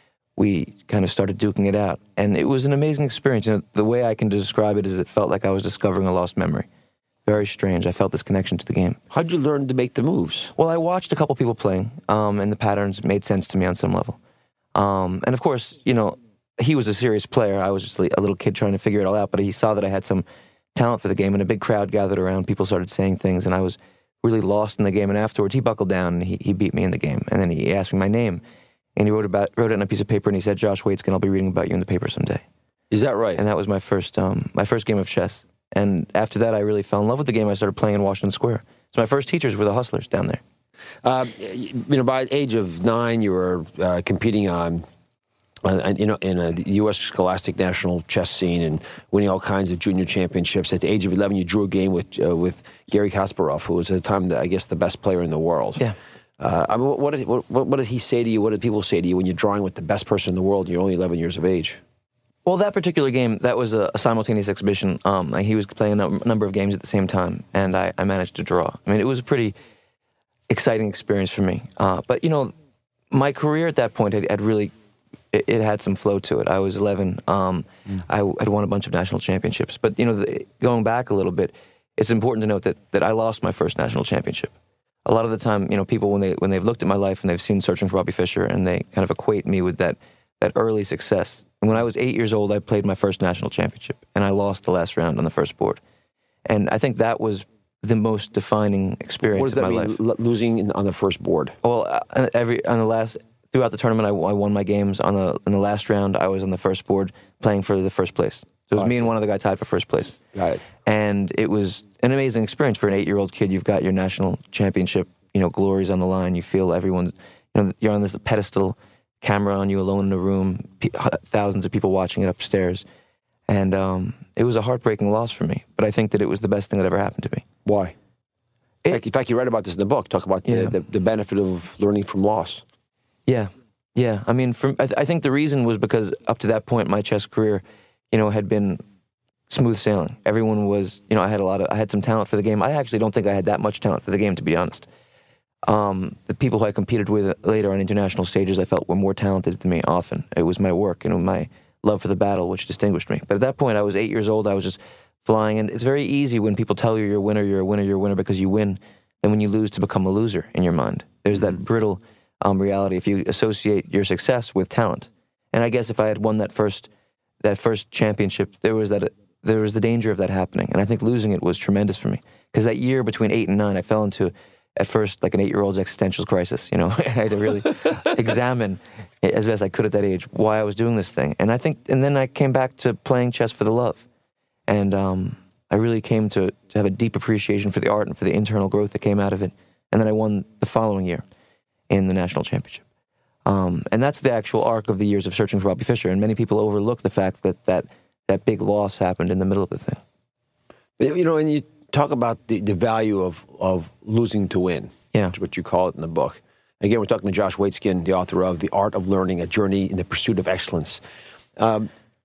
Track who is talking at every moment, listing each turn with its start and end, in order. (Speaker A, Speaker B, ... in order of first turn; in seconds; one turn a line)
Speaker A: 0.4-6.7
Speaker A: 7.2-9.0
Speaker B: 9.1-10.5
Speaker A: 10.6-14.2
Speaker A: 14.7-28.4
Speaker A: 28.9-32.4
Speaker B: 32.9-33.4
Speaker A: 33.4-40.4
Speaker B: 41.0-44.8
Speaker B: 45.6-55.8
Speaker B: 56.4-61.8
Speaker A: 62.5-69.5
Speaker A: 70.5-72.5
Speaker A: 73.1-74.7
Speaker A: 75.3-84.5
Speaker A: 85.0-95.8
Speaker A: 96.5-100.0
Speaker B: 99.3-101.5
Speaker A: 101.6-110.2
Speaker B: 108.8-109.1
Speaker B: 110.3-110.6
Speaker A: 110.8-122.8
Speaker A: 123.5-127.4
Speaker B: 127.6-127.9
Speaker B: 128.9-132.6
Speaker A: 130.4-130.7
Speaker A: 133.3-138.8
Speaker A: 139.5-144.9
Speaker A: 145.6-166.9
Speaker A: 167.4-184.0
Speaker A: 184.7-191.2
Speaker A: 191.9-192.8
Speaker A: 193.4-200.0
Speaker B: 201.0-211.0
Speaker B: 211.6-211.9